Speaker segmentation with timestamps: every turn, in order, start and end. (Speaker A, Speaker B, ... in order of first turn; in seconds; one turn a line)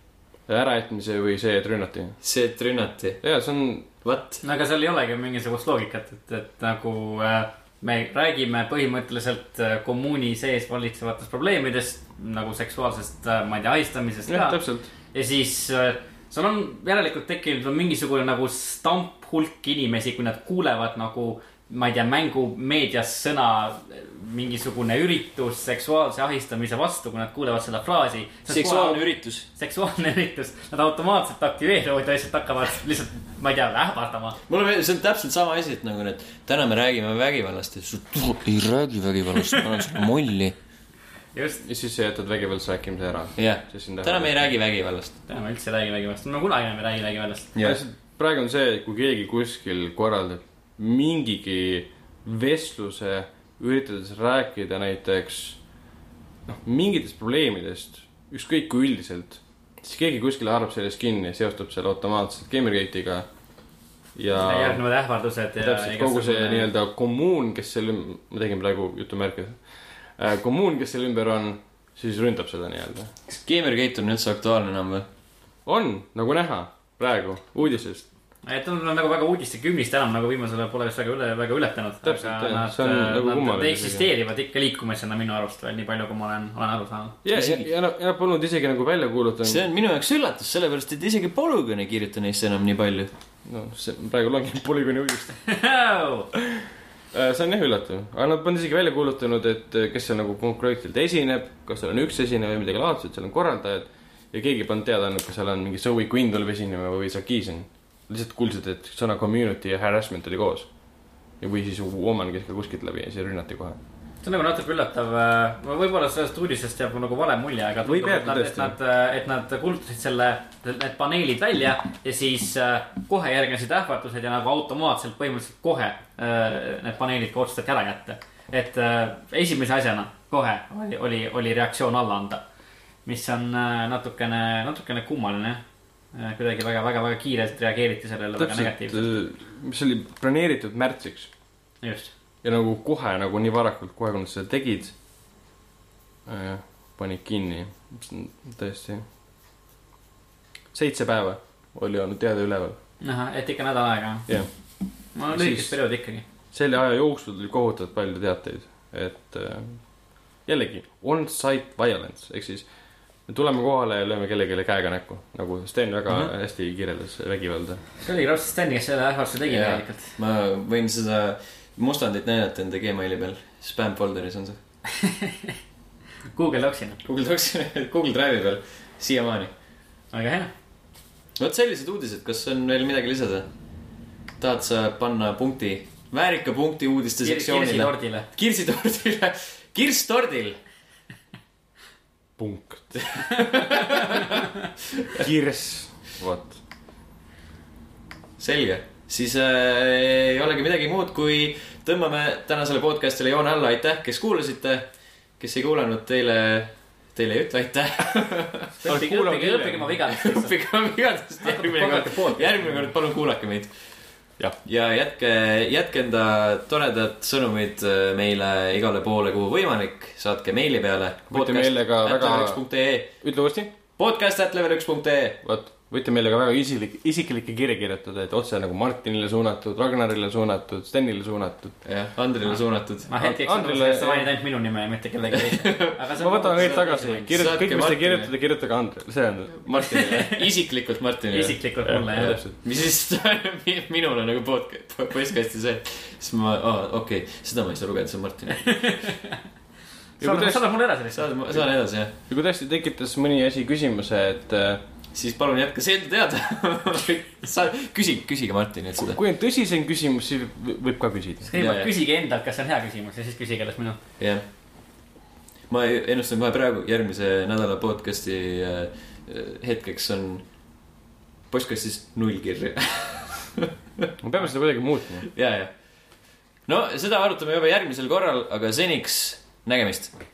Speaker A: 0.5-2.2
Speaker B: 2.2-3.2
Speaker A: 3.2-3.9
Speaker B: 4.0-4.4
Speaker C: 4.4-14.6
Speaker A: 14.3-14.9
Speaker C: 15.1-34.4
Speaker B: 28.5-29.4
Speaker B: 34.5-40.5
Speaker C: 41.3-41.6
Speaker A: 41.6-44.3
Speaker B: 43.4-45.1
Speaker C: 45.3-47.5
Speaker B: 47.5-47.8
Speaker A: 47.6-55.6
Speaker A: 56.5-63.2
Speaker A: 64.1-64.8
Speaker C: 64.4-66.7
Speaker A: 65.6-69.6
Speaker A: 70.2-73.1
Speaker B: 73.3-75.0
Speaker A: 75.7-78.0
Speaker C: 78.4-87.2
Speaker A: 82.0-84.1
Speaker A: 87.2-89.6
Speaker B: 87.3-87.7
Speaker B: 89.4-93.1
Speaker A: 93.4-95.3
Speaker C: 95.4-96.3
Speaker A: 96.5-110.7
Speaker A: 111.4-113.8
Speaker C: 114.2-132.4
Speaker A: 117.8-118.8
Speaker C: 133.1-135.6
Speaker C: 136.1-139.1
Speaker A: 138.4-141.3
Speaker C: 141.8-142.1
Speaker A: 142.4-144.9
Speaker A: 146.2-149.0
Speaker A: 150.7-152.8
Speaker C: 153.0-154.3
Speaker C: 155.1-156.2
Speaker A: 155.3-155.8
Speaker A: 156.5-159.8
Speaker A: 160.4-162.7
Speaker A: 163.3-167.8
Speaker C: 168.0-170.1
Speaker B: 169.4-174.6
Speaker C: 174.8-175.6
Speaker C: 176.3-177.0
Speaker B: 177.0-179.5
Speaker C: 180.1-180.5
Speaker B: 181.4-183.5
Speaker B: 184.4-190.6
Speaker C: 187.2-188.3
Speaker A: 192.4-193.4
Speaker B: 193.0-195.2
Speaker A: 195.1-196.6
Speaker B: 198.4-204.8
Speaker B: 205.4-208.7
Speaker C: 208.8-210.5
Speaker A: 208.8-209.9
Speaker B: 210.1-213.7
Speaker C: 211.4-212.5
Speaker B: 214.6-223.1
Speaker A: 221.3-222.6
Speaker A: 223.2-223.7
Speaker B: 224.0-225.4
Speaker A: 225.4-231.8
Speaker B: 231.8-233.1
Speaker C: 233.1-237.3
Speaker A: 233.2-234.3
Speaker B: 235.4-238.3
Speaker A: 236.2-240.2
Speaker B: 239.7-249.0
Speaker C: 239.9-240.4
Speaker C: 241.3-242.4
Speaker A: 241.8-242.5
Speaker C: 248.6-249.4
Speaker A: 250.2-250.6
Speaker C: 250.2-251.3
Speaker B: 251.1-252.1
Speaker A: 252.3-254.8
Speaker B: 255.1-259.2
Speaker A: 259.0-261.5
Speaker C: 261.4-264.0
Speaker B: 261.6-261.9
Speaker B: 264.2-264.4
Speaker B: 265.7-270.4
Speaker B: 271.5-273.7
Speaker A: 274.2-275.3
Speaker B: 275.3-275.7
Speaker B: 276.7-280.1